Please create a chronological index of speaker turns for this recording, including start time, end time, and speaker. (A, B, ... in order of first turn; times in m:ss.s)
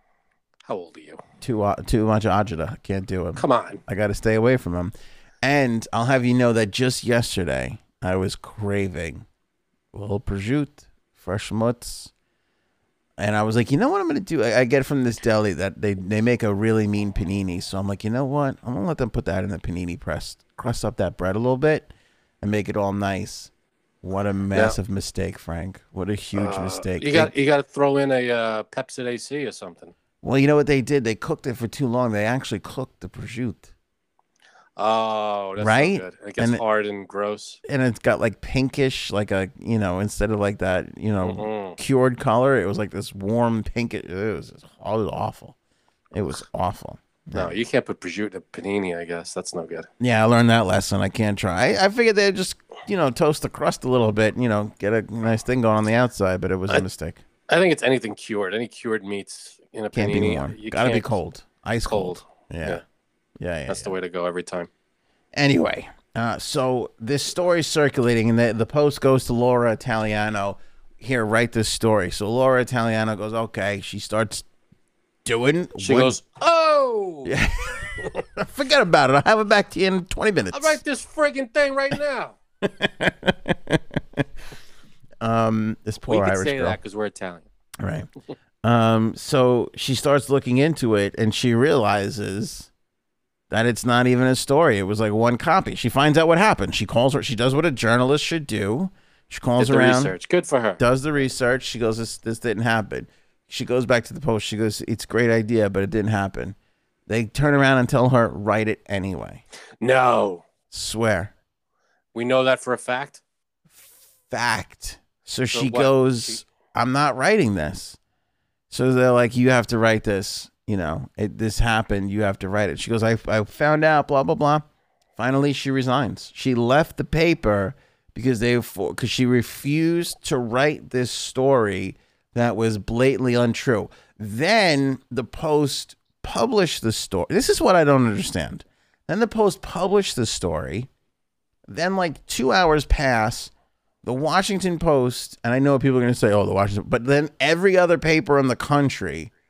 0:00.6-0:01.2 A
0:01.4-0:09.2 B
0:03.4-0:03.8 A
0:09.9-0:12.1 B
0:13.2-0:23.5 B
0:24.0-0:27.3 B
0:26.3-0:29.9 A
0:30.2-0:33.7 B
0:34.8-0:37.6 A
0:35.6-0:36.6 B
0:37.6-0:45.5 B
0:41.2-0:41.8 A
0:46.1-0:47.6 B
0:47.3-0:49.9 A
0:50.0-0:57.2 B
0:57.5-1:01.1 A
0:59.9-1:02.8 B
1:01.9-1:02.8 A
1:03.4-1:03.9 B
1:03.7-1:04.7 A
1:05.3-1:14.4 B
1:15.2-1:16.2 B
1:15.8-1:17.4 A
1:17.2-1:20.8 B
1:20.5-1:22.4 A
1:22.6-1:24.2 B
1:25.2-1:26.8 B
1:26.1-1:27.4 A
1:27.8-1:28.1 B
1:28.6-1:32.7 B
1:33.5-1:40.1 B
1:39.6-1:40.8 A
1:40.8-1:46.6 B
1:47.1-1:49.4 B
1:49.8-1:50.4 A
1:50.7-1:51.3 B
1:52.1-1:53.2 A
1:53.7-1:58.0 B
1:55.5-1:56.4 A
1:58.7-2:04.6 B
2:05.2-2:20.9 B
2:21.7-2:23.5 B
2:24.0-2:29.3 B